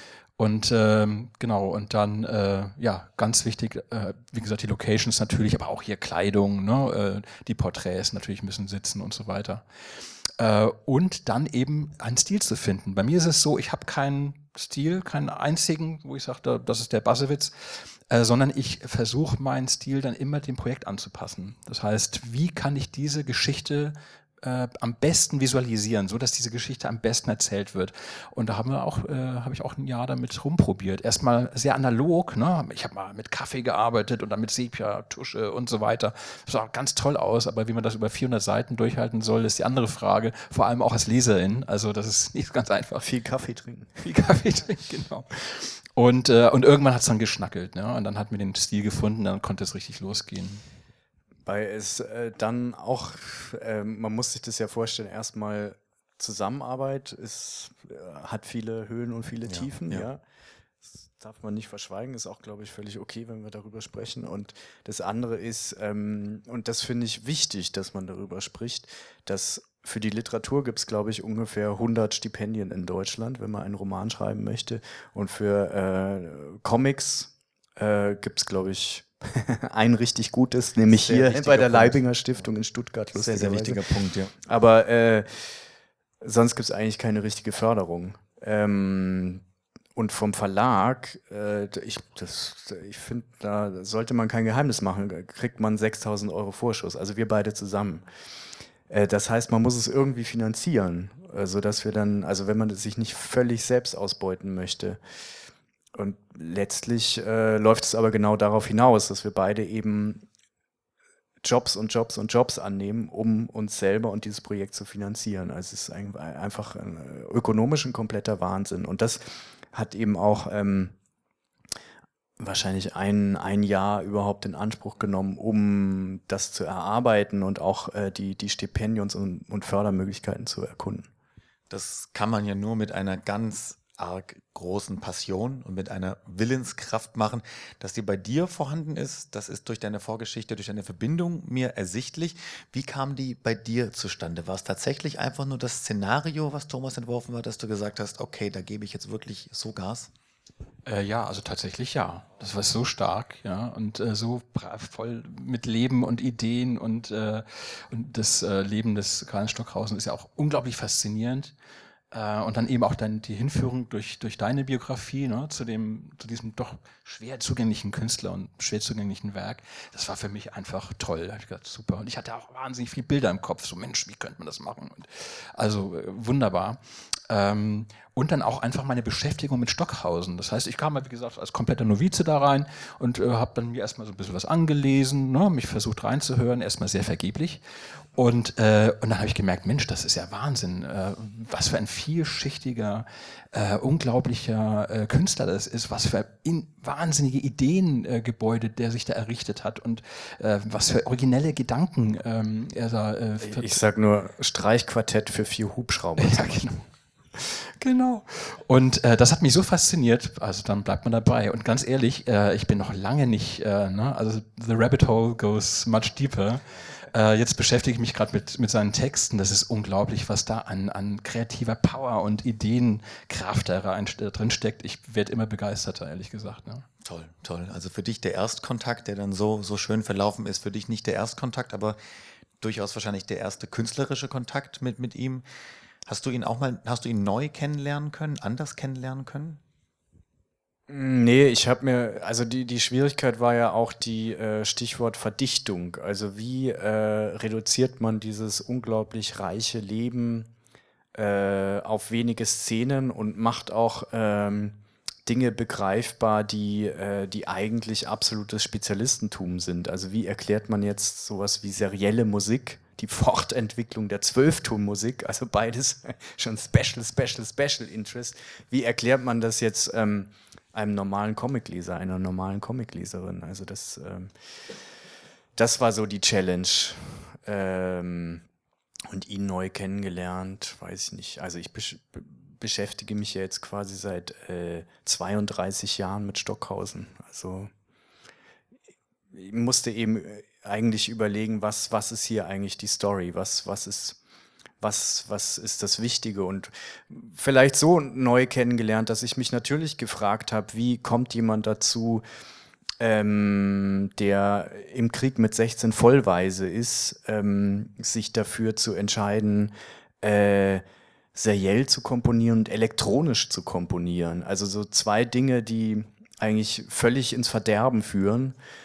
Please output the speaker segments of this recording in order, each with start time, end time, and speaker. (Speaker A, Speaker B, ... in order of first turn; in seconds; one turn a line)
Speaker A: 0.4-43.1
Speaker B: 43.0-44.0
Speaker A: 44.0-50.6
Speaker B: 51.5-60.2
Speaker C: 59.5-60.1
Speaker B: 60.8-83.8
Speaker C: 80.9-82.0
Speaker C: 83.1-84.3
Speaker B: 84.4-85.7
Speaker B: 86.2-89.4
Speaker B: 90.0-98.1
Speaker B: 98.9-105.0
Speaker B: 105.9-110.3
Speaker B: 111.4-121.0
Speaker B: 122.4-131.1
Speaker C: 131.7-150.1
Speaker A: 150.9-161.5
Speaker A: 162.1-203.8
Speaker B: 203.4-206.8
Speaker A: 206.2-206.8
Speaker A: 207.3-226.9
Speaker C: 227.0-232.0
Speaker C: 232.6-235.4
Speaker C: 236.1-239.6
Speaker B: 240.9-250.5
Speaker B: 251.1-274.3
Speaker B: 275.6-278.4
Speaker B: 279.1-287.7
Speaker B: 289.3-294.2
Speaker B: 294.8-302.2
Speaker B: 303.0-318.6